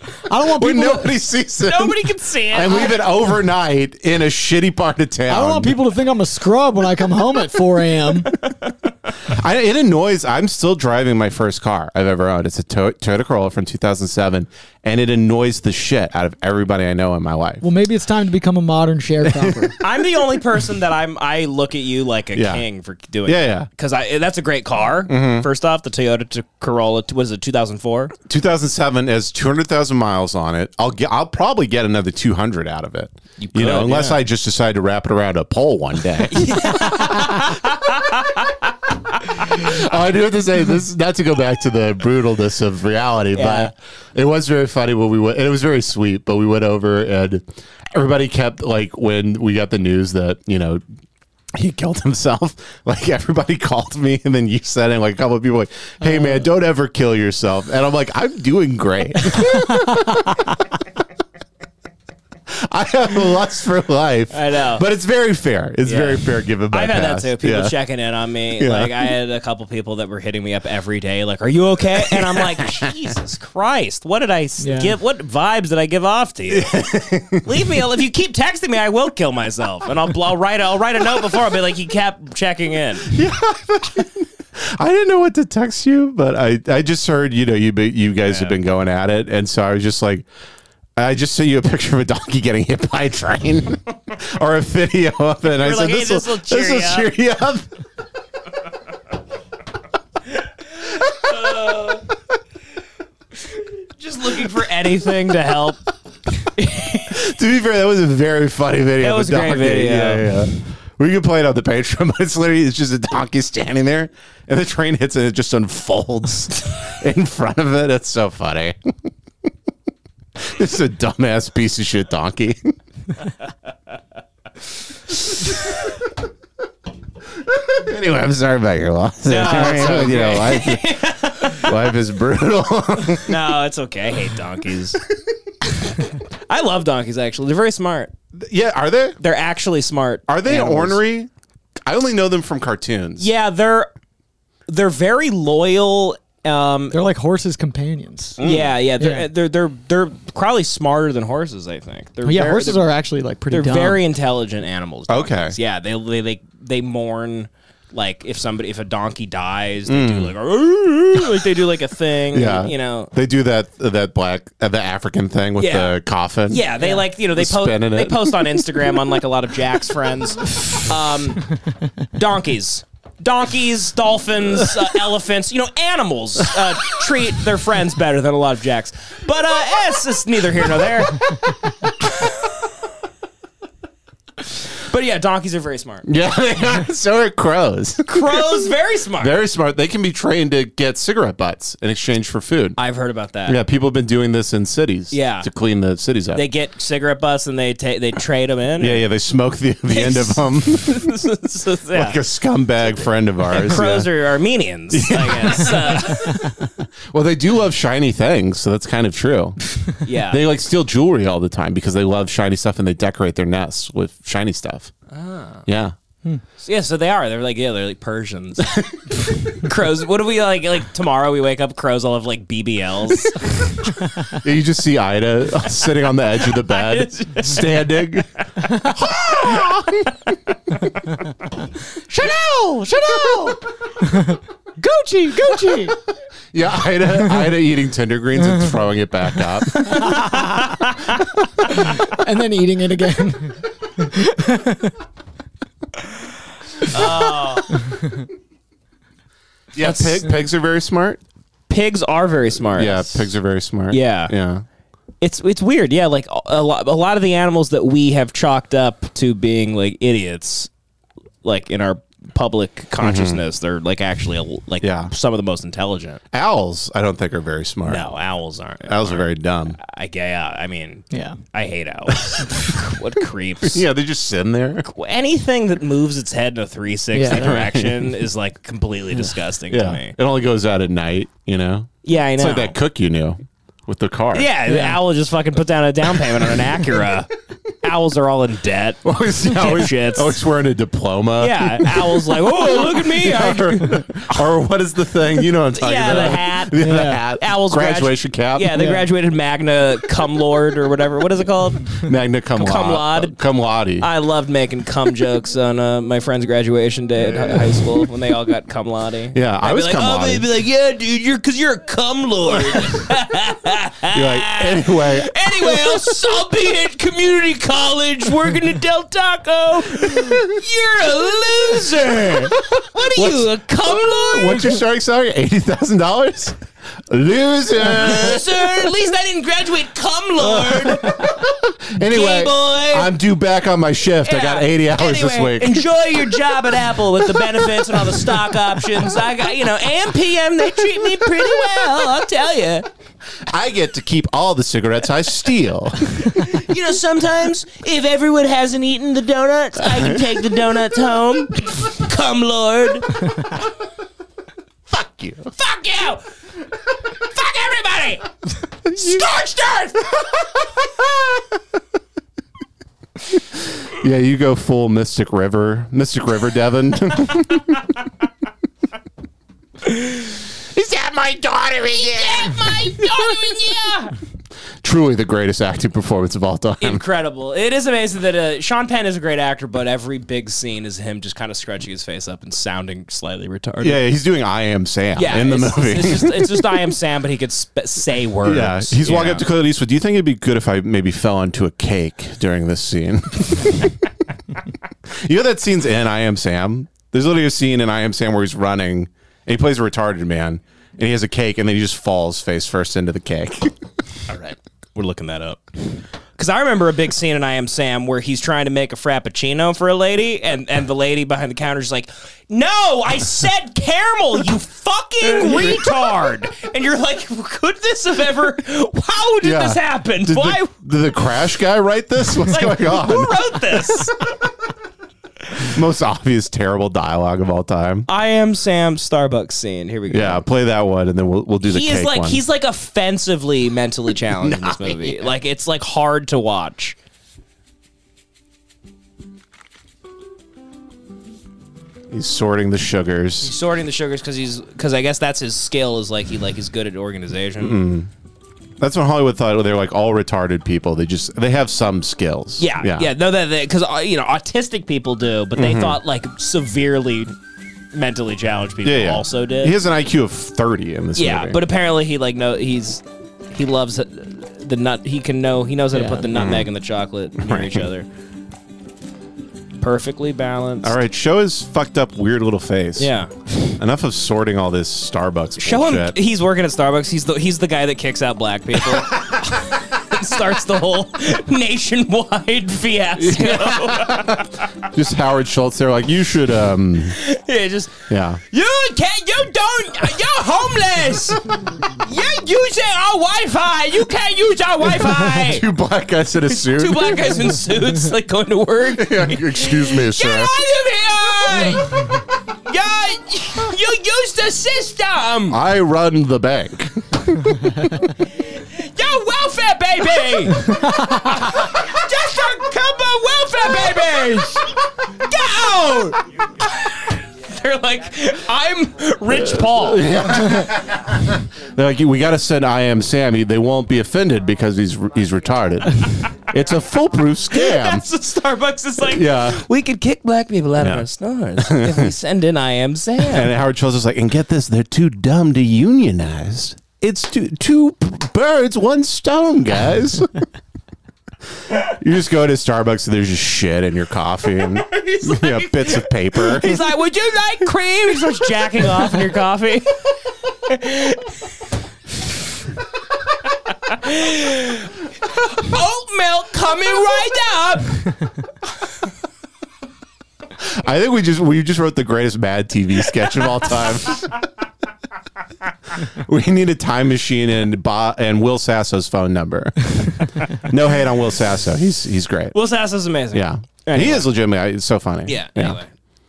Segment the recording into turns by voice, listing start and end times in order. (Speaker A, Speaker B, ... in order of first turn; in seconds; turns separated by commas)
Speaker A: 0.3-1.1, Speaker B: 0.5-5.8, Speaker C: 1.6-3.1, Speaker A: 5.3-8.3, Speaker B: 9.3-17.6, Speaker A: 17.6-19.7, Speaker B: 19.2-19.7, Speaker C: 19.8-28.1, Speaker B: 22.3-22.6, Speaker B: 23.3-23.7, Speaker B: 25.1-25.5, Speaker B: 28.3-37.6, Speaker C: 33.4-34.2, Speaker C: 36.3-38.5, Speaker B: 39.4-50.8, Speaker C: 43.3-43.7, Speaker B: 51.5-60.2, Speaker A: 59.7-59.9, Speaker B: 62.5-67.8, Speaker C: 64.3-64.8, Speaker C: 65.8-76.8, Speaker B: 68.6-69.1, Speaker B: 72.0-72.8, Speaker A: 74.6-75.0, Speaker B: 76.5-77.5, Speaker C: 77.4-83.1, Speaker B: 83.1-90.3, Speaker C: 88.2-88.6, Speaker B: 91.0-97.7, Speaker C: 95.6-97.1, Speaker C: 101.2-102.0, Speaker C: 104.0-105.8, Speaker C: 106.6-107.0, Speaker B: 107.1-118.8, Speaker C: 109.0-110.4, Speaker B: 120.4-122.7, Speaker B: 127.6-133.3, Speaker C: 129.3-131.7, Speaker C: 133.2-135.0, Speaker C: 136.5-138.1, Speaker B: 138.3-139.2, Speaker C: 139.2-141.0, Speaker B: 140.3-141.3, Speaker B: 141.8-143.3, Speaker C: 143.2-143.9, Speaker C: 144.7-147.0, Speaker A: 146.9-148.4, Speaker B: 148.4-148.8, Speaker C: 148.4-152.8, Speaker A: 149.0-149.3, Speaker A: 152.2-154.0, Speaker C: 153.5-163.1, Speaker B: 155.1-155.6, Speaker B: 159.9-160.3, Speaker B: 162.3-166.7, Speaker C: 165.6-171.4, Speaker B: 167.2-168.6, Speaker C: 172.2-181.3, Speaker C: 184.9-186.1, Speaker B: 186.1-188.6, Speaker C: 188.1-189.3, Speaker B: 189.2-192.8, Speaker C: 192.8-193.6, Speaker B: 193.5-196.4, Speaker C: 195.1-195.5, Speaker C: 196.3-199.0, Speaker B: 198.8-201.1, Speaker C: 199.9-202.2, Speaker B: 201.9-204.1, Speaker C: 203.5-206.4, Speaker B: 204.9-206.4, Speaker B: 207.1-209.6, Speaker C: 210.0-210.4, Speaker B: 210.3-214.9, Speaker C: 215.1-215.7, Speaker B: 215.7-215.9, Speaker C: 216.6-218.7, Speaker C: 219.6-223.4, Speaker B: 224.4-228.3, Speaker C: 226.6-227.7, Speaker B: 228.9-229.9, Speaker A: 232.1-236.0, Speaker B: 236.5-240.0, Speaker A: 239.8-240.9, Speaker A: 241.6-244.9, Speaker C: 246.9-247.8, Speaker B: 249.8-251.2, Speaker C: 249.8-250.1, Speaker C: 251.7-253.2, Speaker B: 252.8-254.7, Speaker C: 253.9-254.3, Speaker C: 255.2-260.7, Speaker C: 261.4-266.2, Speaker B: 263.0-263.4, Speaker B: 264.8-265.1, Speaker B: 266.3-268.1, Speaker C: 267.9-273.8, Speaker B: 268.9-269.8, Speaker A: 271.1-271.4, Speaker B: 273.6-274.9, Speaker C: 274.8-280.2, Speaker A: 277.1-277.5, Speaker B: 277.3-278.0, Speaker B: 279.7-284.5, Speaker C: 282.1-282.8, Speaker C: 284.3-287.3, Speaker A: 284.7-285.0, Speaker C: 287.8-290.4, Speaker B: 289.0-298.9, Speaker C: 291.4-294.0, Speaker C: 295.7-301.9, Speaker A: 296.8-297.2, Speaker A: 298.7-299.1, Speaker B: 302.0-304.1, Speaker C: 302.6-303.4, Speaker C: 304.0-324.8, Speaker B: 307.2-308.0, Speaker B: 309.3-310.5, Speaker B: 314.1-316.1, Speaker B: 323.1-323.5, Speaker B: 324.1-326.6, Speaker B: 327.1-328.9, Speaker C: 327.8-331.4, Speaker B: 330.4-336.0, Speaker C: 332.1-333.1, Speaker C: 334.2-342.9, Speaker B: 343.5-346.4, Speaker C: 346.4-353.1, Speaker B: 354.9-355.5, Speaker C: 355.6-356.2, Speaker C: 357.2-358.3, Speaker C: 358.9-360.2, Speaker B: 359.0-359.2, Speaker B: 363.9-367.8, Speaker B: 370.7-373.3, Speaker C: 371.9-374.1, Speaker B: 374.8-377.0, Speaker C: 376.8-384.0, Speaker B: 383.8-386.7, Speaker C: 385.2-389.5, Speaker B: 388.4-393.9, Speaker B: 395.2-403.7, Speaker C: 404.3-405.7, Speaker C: 406.4-420.7, Speaker B: 415.2-416.0, Speaker B: 419.4-424.0, Speaker C: 422.5-424.2, Speaker B: 425.6-428.1, Speaker C: 428.1-430.4, Speaker B: 430.1-432.4, Speaker C: 431.6-437.0, Speaker B: 434.3-435.3, Speaker B: 442.1-443.5, Speaker C: 443.4-447.8, Speaker B: 447.6-448.1, Speaker B: 448.8-453.1, Speaker C: 452.6-457.3, Speaker B: 455.6-456.0, Speaker C: 457.9-459.8, Speaker B: 458.8-461.6, Speaker C: 461.2-468.1, Speaker A: 465.9-466.3, Speaker B: 466.3-466.7, Speaker B: 467.4-467.9, Speaker C: 469.8-471.0, Speaker B: 470.8-473.1, Speaker C: 473.0-473.3, Speaker B: 473.8-476.2, Speaker C: 475.6-484.5, Speaker B: 483.2-487.2, Speaker C: 487.1-495.7, Speaker B: 488.1-488.4, Speaker B: 495.3-497.6, Speaker C: 496.5-505.6, Speaker B: 498.9-500.6, Speaker B: 505.5-507.5, Speaker C: 508.4-514.6, Speaker A: 510.7-511.2, Speaker C: 515.2-520.2, Speaker B: 519.3-528.0, Speaker C: 527.5-533.5, Speaker B: 529.0-529.6, Speaker B: 530.8-532.1, Speaker B: 533.2-540.3, Speaker B: 541.7-546.8, Speaker C: 544.8-549.9, Speaker C: 550.7-551.4, Speaker C: 553.9-558.1, Speaker B: 560.6-564.4, Speaker B: 566.1-572.6, Speaker C: 572.5-574.4, Speaker B: 573.3-575.8, Speaker C: 575.3-575.9